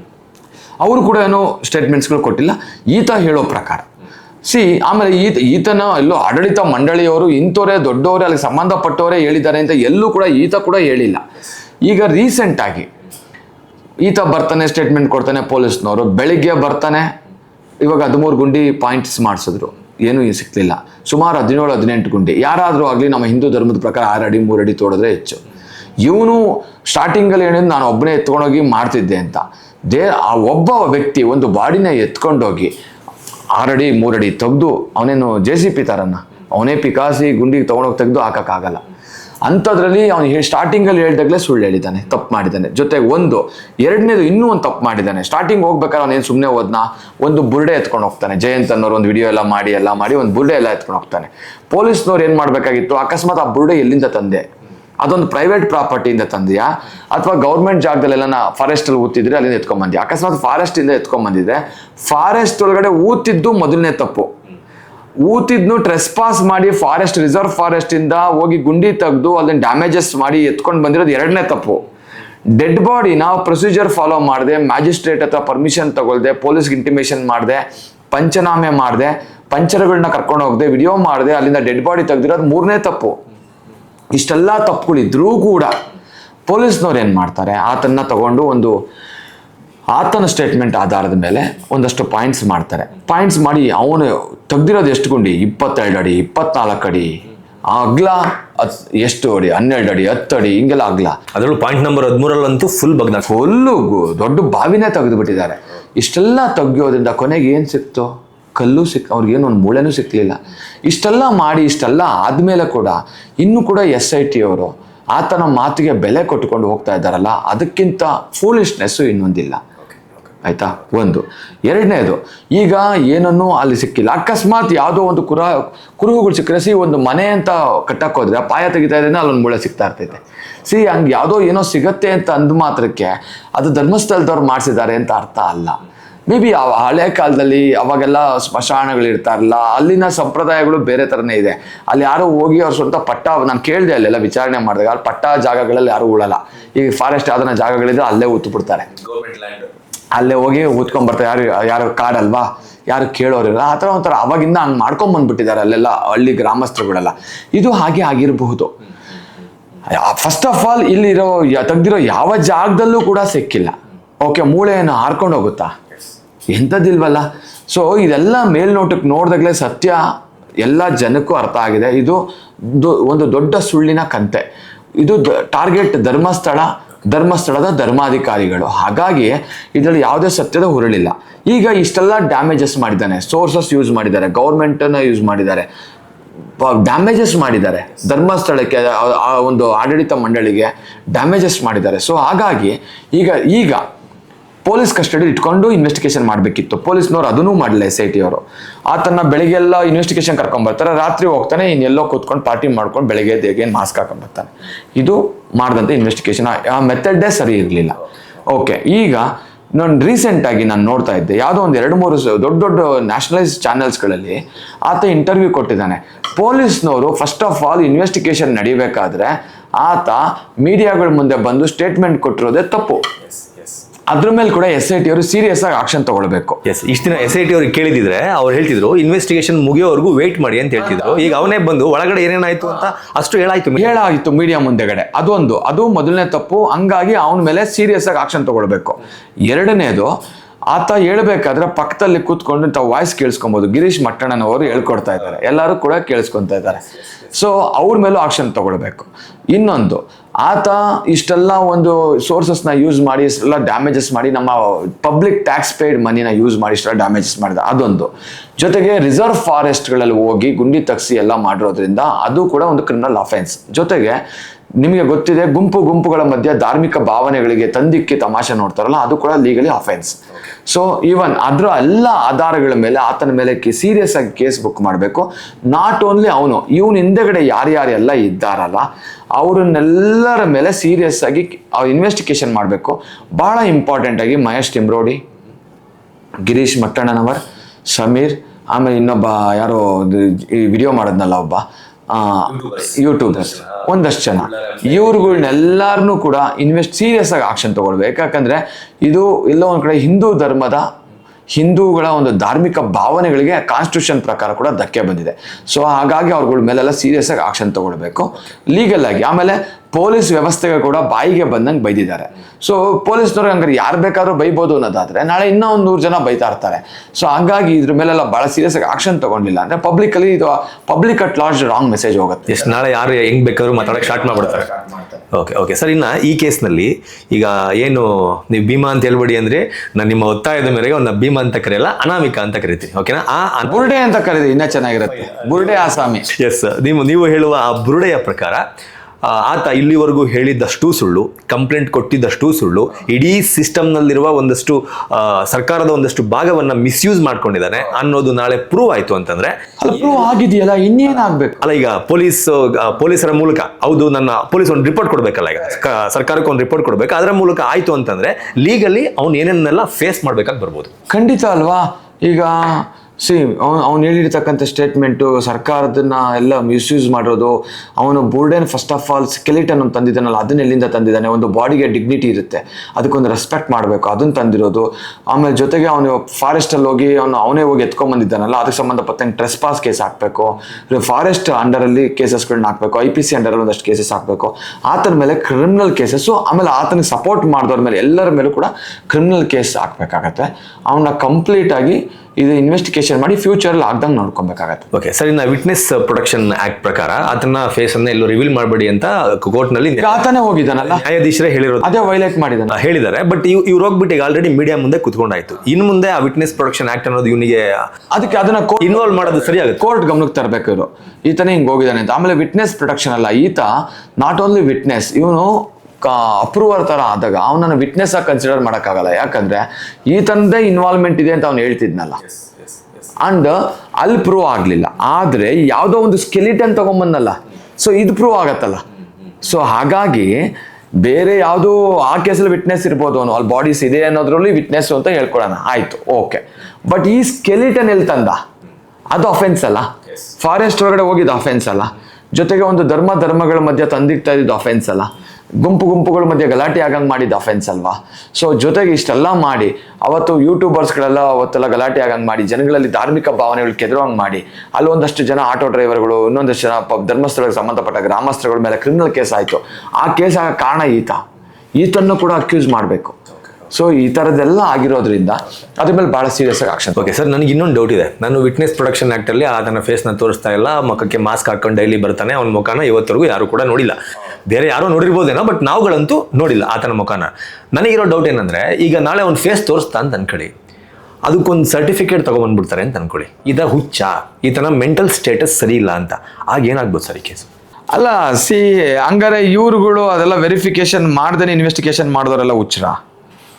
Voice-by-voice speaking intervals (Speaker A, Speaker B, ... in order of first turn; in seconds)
Speaker A: 0.8-3.9, 4.5-11.2, 11.8-12.9, 14.0-17.1, 17.8-25.4, 26.0-32.7, 33.5-38.8, 39.5-54.4, 55.0-64.3, 65.2-71.8, 72.5-83.2, 84.1-85.7, 86.5-88.8, 89.9-97.2, 97.7-101.2, 103.3-119.6, 120.4-148.9, 150.1-158.7, 159.9-165.7, 166.5-170.0, 170.6-174.4, 175.0-185.7, 186.6-193.8, 194.6-223.0, 224.1-226.6, 233.8-240.2, 240.7-264.2, 264.8-285.2, 286.4-300.9, 301.5-322.7, 324.0-325.0, 333.6-336.3, 349.8-351.6, 361.1-394.9, 400.0-401.0, 401.8-402.8, 408.1-422.2, 423.2-428.8, 429.4-430.5, 431.0-438.4, 439.1-439.9, 440.4-445.1, 445.6-461.2, 461.8-463.1, 463.7-467.2, 487.9-493.0
Speaker B: 101.3-103.3, 149.0-149.7, 226.7-234.0, 292.5-295.5, 322.5-324.7, 325.3-333.9, 336.3-338.6, 339.2-349.6, 351.6-360.9, 394.9-400.2, 400.8-401.9, 402.7-407.8, 408.8-409.9, 467.0-474.0, 474.5-480.5, 481.2-487.5